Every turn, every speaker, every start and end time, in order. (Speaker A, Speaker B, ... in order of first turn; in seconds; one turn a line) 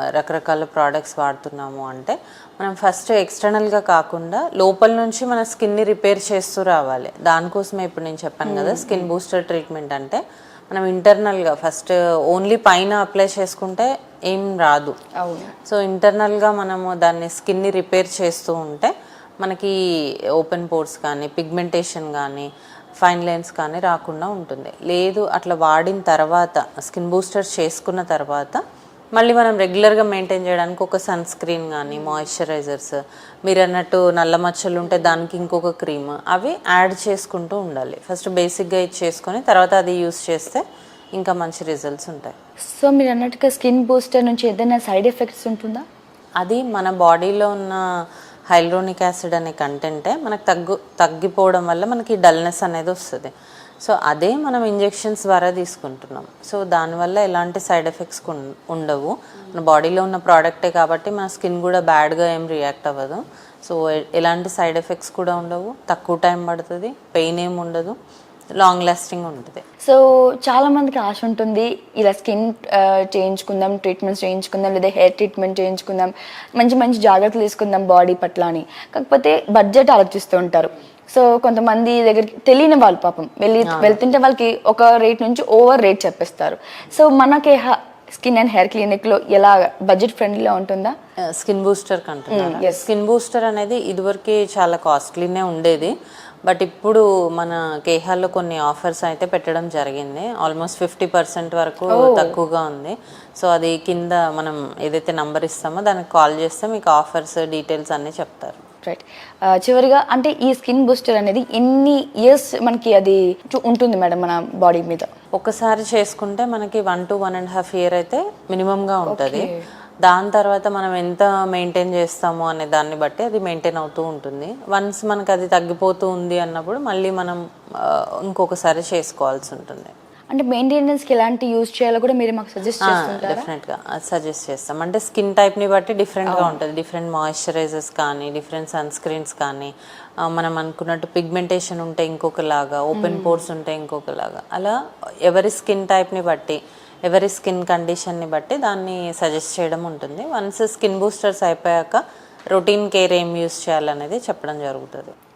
Speaker A: 0.1-14.9
Speaker B: 8.4-9.1
Speaker B: 15.2-15.5
Speaker A: 15.7-19.8
Speaker A: 20.4-22.5
Speaker A: 23.0-28.6
Speaker A: 29.1-40.6
Speaker B: 32.0-32.2
Speaker A: 41.2-42.3
Speaker B: 42.7-45.9
Speaker A: 46.4-47.8
Speaker A: 48.5-53.3
Speaker A: 53.8-68.0
Speaker A: 68.6-69.6
Speaker B: 69.8-90.9
Speaker A: 83.6-84.0
Speaker A: 91.3-108.6
Speaker B: 92.3-92.9
Speaker B: 101.9-102.3
Speaker B: 108.8-115.1
Speaker A: 115.3-119.5
Speaker B: 119.0-119.6
Speaker A: 120.0-129.9
Speaker B: 130.3-133.5
Speaker A: 132.8-155.1
Speaker B: 136.2-136.6
Speaker B: 142.9-143.4